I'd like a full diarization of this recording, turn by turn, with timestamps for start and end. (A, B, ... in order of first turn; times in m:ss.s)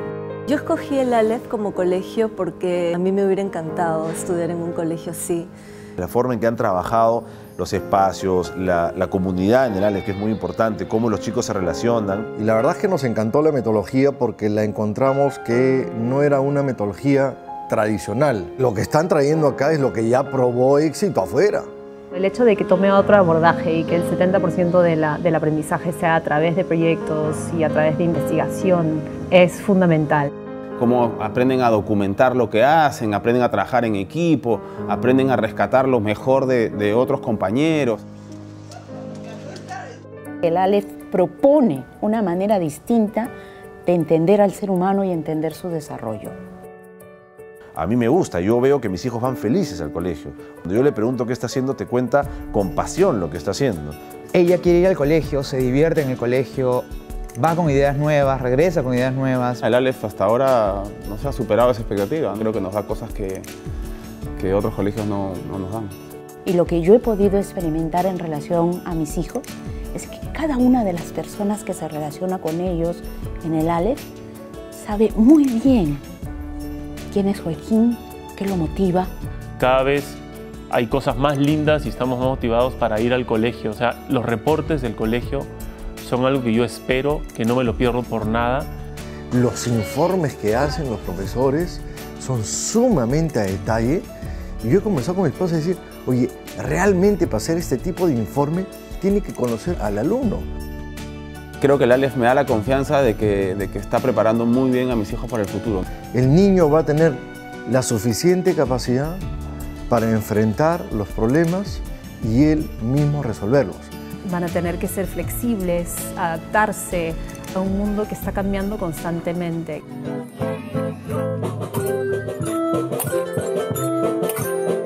0:00.5-0:05.5 A
0:06.0-0:12.3 B
0:12.4-0:21.7 C
0:22.1-0:30.3 D
0:30.8-0:38.0 E
0:40.4-0:43.3 F
0:43.8-0:46.4 F
0:47.7-0:54.0 B
0:54.3-0:59.6 G
0:59.6-1:03.5 E
1:04.4-1:05.9 E
1:06.4-1:14.0 F
1:14.7-1:16.0 F
1:17.1-1:19.1 F
1:19.6-1:25.5 H
1:26.0-1:28.7 H
1:29.3-1:34.0 C
1:34.6-1:40.4 C
1:41.6-1:45.8 E
1:46.1-1:49.2 C
1:49.9-1:53.9 C
1:54.2-1:59.8 D